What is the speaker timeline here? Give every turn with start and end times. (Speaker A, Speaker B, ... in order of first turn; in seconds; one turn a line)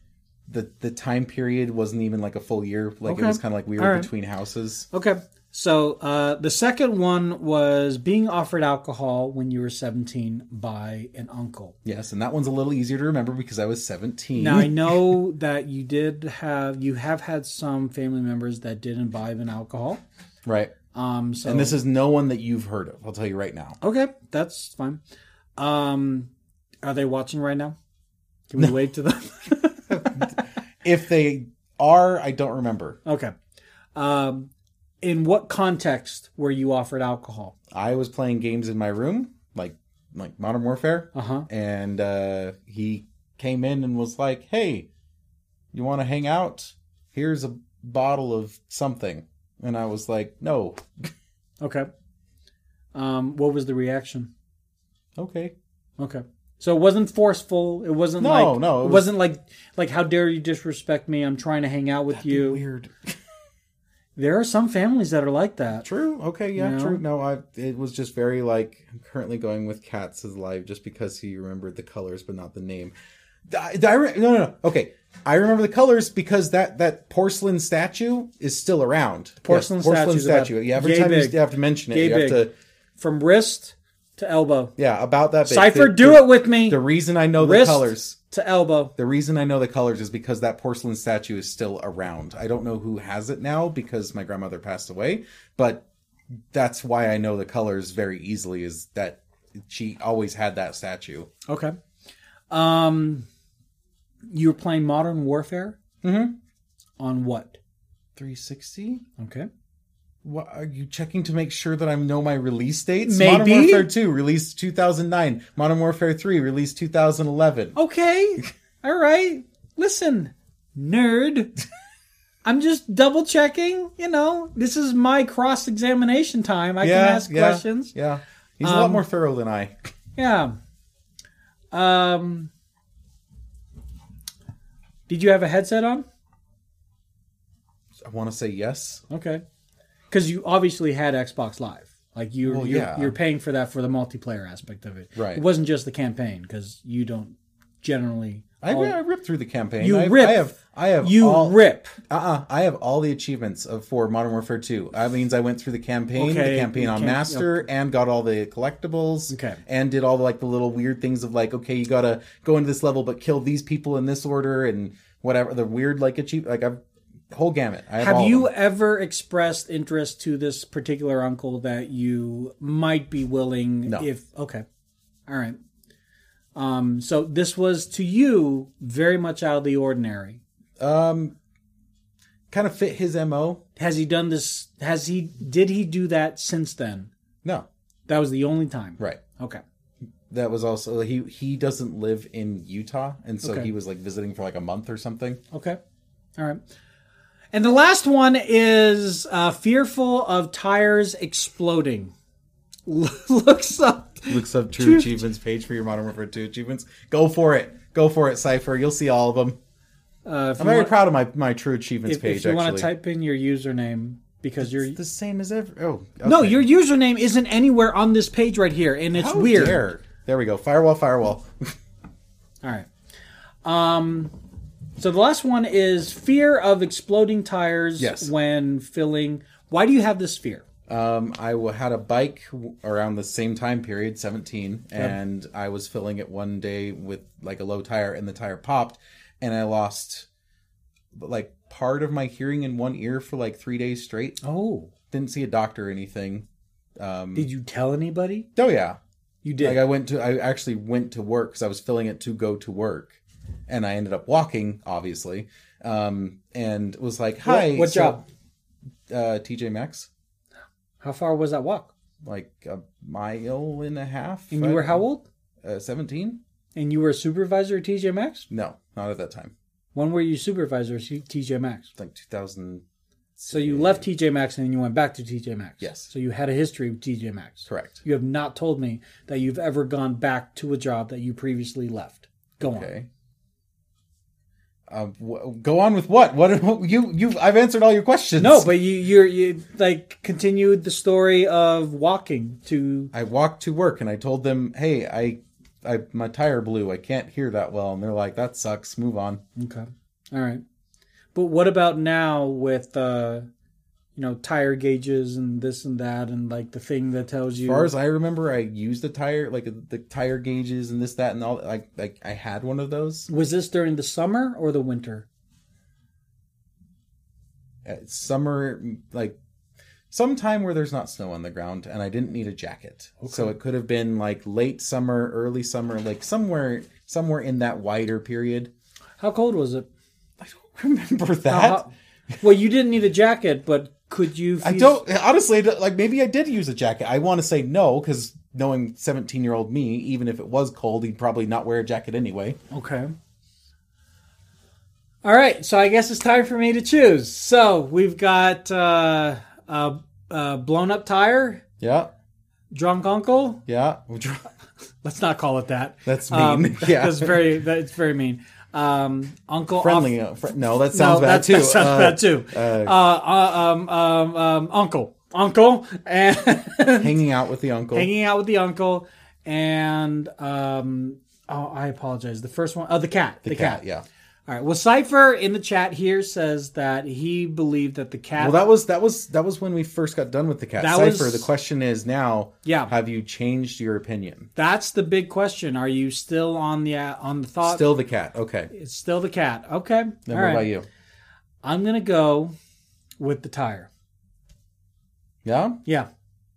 Speaker A: 0.5-4.9
Speaker B: 3.1-4.1
Speaker B: 4.9-11.8
Speaker A: 11.8-15.2
Speaker B: 14.4-20.0
Speaker A: 20.4-20.7
Speaker B: 20.9-21.8
Speaker A: 21.4-23.8
Speaker B: 23.8-25.0
Speaker B: 25.6-26.3
Speaker B: 26.8-27.8
Speaker B: 28.5-30.2
Speaker A: 29.9-33.0
Speaker B: 33.0-33.3
Speaker B: 34.0-34.5
Speaker B: 35.0-37.5
Speaker A: 37.7-44.9
Speaker B: 41.1-41.5
Speaker A: 45.7-51.1
Speaker B: 51.6-51.9
Speaker B: 52.9-54.3
Speaker A: 55.2-55.5
Speaker B: 56.0-62.6
Speaker A: 58.2-59.1
Speaker A: 62.1-63.2
Speaker B: 64.2-65.9
Speaker A: 65.8-72.9
Speaker B: 66.6-67.0
Speaker A: 73.5-82.5
Speaker B: 79.4-81.4
Speaker B: 81.9-82.5
Speaker B: 83.0-84.7
Speaker A: 84.8-88.2
Speaker B: 85.5-86.8
Speaker B: 87.4-88.9
Speaker A: 89.0-95.8
Speaker A: 96.5-101.3
Speaker B: 101.5-101.8
Speaker B: 102.5-103.3
Speaker B: 104.3-105.8
Speaker A: 106.0-106.4
Speaker B: 107.0-107.6
Speaker A: 108.2-109.0
Speaker B: 109.2-109.5
Speaker A: 110.2-117.8
Speaker B: 113.0-113.9
Speaker B: 117.8-121.5
Speaker B: 122.4-127.9
Speaker A: 126.8-129.9
Speaker B: 128.6-129.1
Speaker B: 130.2-130.6
Speaker B: 131.7-132.5
Speaker B: 135.1-136.1
Speaker A: 138.0-139.0
Speaker B: 139.1-139.4
Speaker B: 140.1-149.0
Speaker A: 142.4-143.2
Speaker A: 145.2-145.4
Speaker A: 148.6-168.5
Speaker B: 149.8-152.0
Speaker B: 156.2-157.6
Speaker B: 159.3-159.6
Speaker B: 168.0-174.7
Speaker B: 175.3-175.6
Speaker B: 176.6-180.4
Speaker A: 180.8-181.4
Speaker A: 182.5-183.6
Speaker B: 183.8-187.1
Speaker B: 188.1-189.6
Speaker A: 190.3-195.4
Speaker B: 193.4-193.7
Speaker B: 195.5-195.8
Speaker B: 196.4-196.6
Speaker B: 197.5-202.1
Speaker B: 202.9-205.2
Speaker A: 204.3-209.6
Speaker B: 210.2-210.9
Speaker A: 210.6-212.9
Speaker B: 212.1-215.0
Speaker A: 214.6-216.6
Speaker B: 216.2-219.8
Speaker A: 219.1-221.8
Speaker B: 222.6-222.9
Speaker B: 223.6-224.4
Speaker B: 225.0-230.7
Speaker A: 228.0-228.3
Speaker A: 230.9-240.3
Speaker A: 241.1-244.4
Speaker B: 244.4-244.9
Speaker A: 245.1-246.5
Speaker A: 247.0-247.5
Speaker B: 247.3-248.5
Speaker A: 248.6-249.0
Speaker B: 249.4-249.8
Speaker A: 249.6-258.2
Speaker B: 257.4-258.2
Speaker A: 259.1-260.1
Speaker B: 261.0-261.9
Speaker A: 262.2-265.0
Speaker B: 264.5-265.2
Speaker A: 265.6-266.4
Speaker B: 266.8-268.5
Speaker A: 268.5-269.5
Speaker B: 269.9-271.9
Speaker A: 271.9-272.8
Speaker A: 273.4-274.1
Speaker B: 273.5-282.9
Speaker A: 275.8-276.1
Speaker A: 277.7-278.0
Speaker A: 282.6-283.1
Speaker A: 284.9-288.7
Speaker B: 288.4-293.1
Speaker A: 293.1-299.4
Speaker B: 299.6-300.6
Speaker B: 301.3-303.5
Speaker B: 304.2-307.9
Speaker A: 307.6-313.3
Speaker B: 313.3-315.3
Speaker A: 317.9-319.4
Speaker A: 320.1-328.7
Speaker B: 323.2-323.5
Speaker B: 329.2-329.9
Speaker A: 330.4-332.4
Speaker B: 331.5-331.9
Speaker B: 332.4-335.0
Speaker A: 334.6-342.6
Speaker B: 342.7-343.1
Speaker B: 345.2-351.6
Speaker A: 351.8-352.1
Speaker B: 352.7-353.6
Speaker A: 353.7-354.5
Speaker B: 355.0-360.1
Speaker A: 356.1-357.5
Speaker A: 359.8-363.0
Speaker B: 360.9-367.1
Speaker A: 367.0-368.1
Speaker B: 367.9-373.8
Speaker A: 373.4-374.1
Speaker B: 374.5-378.6
Speaker A: 378.4-384.5
Speaker B: 380.8-381.5
Speaker B: 382.6-382.9
Speaker B: 384.6-387.9
Speaker A: 387.6-388.7
Speaker B: 388.7-390.7
Speaker A: 390.3-390.9
Speaker B: 391.6-392.6
Speaker B: 393.2-393.9
Speaker A: 395.4-395.8